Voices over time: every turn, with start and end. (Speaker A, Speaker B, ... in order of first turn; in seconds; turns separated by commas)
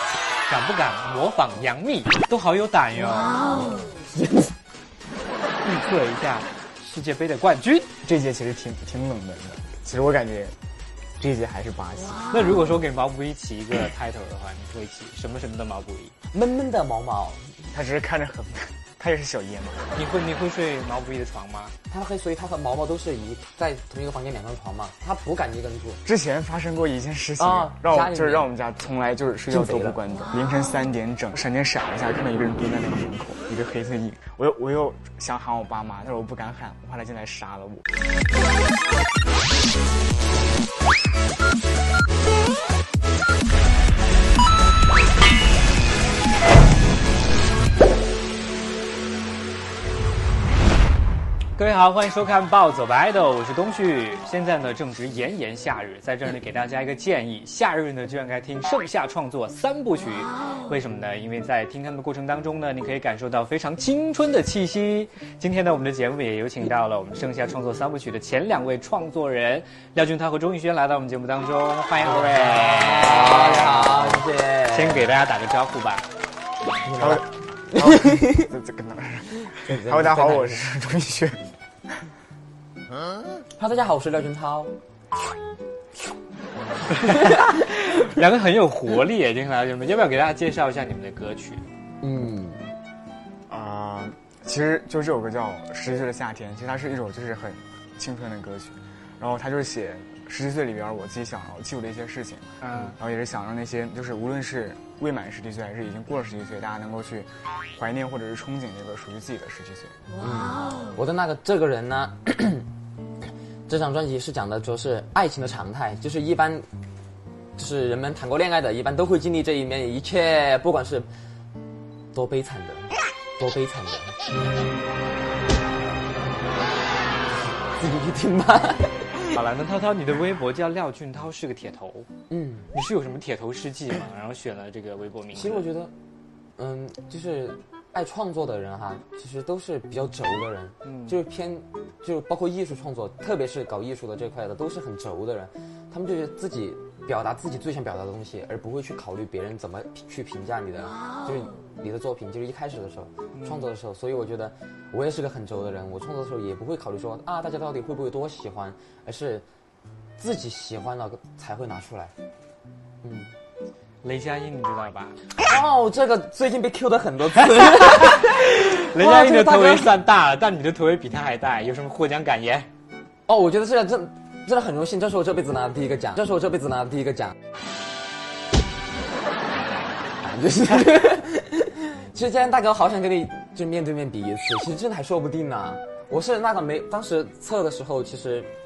Speaker A: 0.5-3.7, Speaker B: 4.0-4.5, Speaker A: 5.6-7.9, Speaker C: 8.0-10.5, Speaker C: 11.2-12.3, Speaker A: 12.3-16.1, Speaker B: 16.3-17.5, Speaker C: 17.7-19.9, Speaker A: 19.9-21.7, Speaker B: 21.9-26.0, Speaker C: 26.0-37.9, Speaker B: 27.4-28.5, Speaker B: 29.5-30.0, Speaker A: 51.5-76.0, Speaker B: 72.1-75.1, Speaker B: 76.8-78.5, Speaker C: 77.0-81.4, Speaker B: 79.6-80.6, Speaker B: 83.6-84.7, Speaker A: 86.9-91.6, Speaker B: 87.1-87.4, Speaker B: 92.0-92.6, Speaker C: 93.5-110.0, Speaker A: 102.6-103.0, Speaker B: 110.2-112.7, Speaker B: 113.7-116.7, Speaker B: 117.5-121.1, Speaker B: 122.1-124.2, Speaker B: 127.8-129.4, Speaker A: 129.3-132.1, Speaker B: 132.3-132.7, Speaker A: 132.7-135.7, Speaker B: 135.3-135.9, Speaker B: 136.6-159.4, Speaker A: 140.8-141.2, Speaker A: 153.3-153.7, Speaker B: 160.2-162.1, Speaker B: 163.0-163.3, Speaker A: 164.0-165.2, Speaker B: 165.4-169.9, Speaker A: 167.8-172.7, Speaker B: 173.3-177.4, Speaker B: 180.2-188.5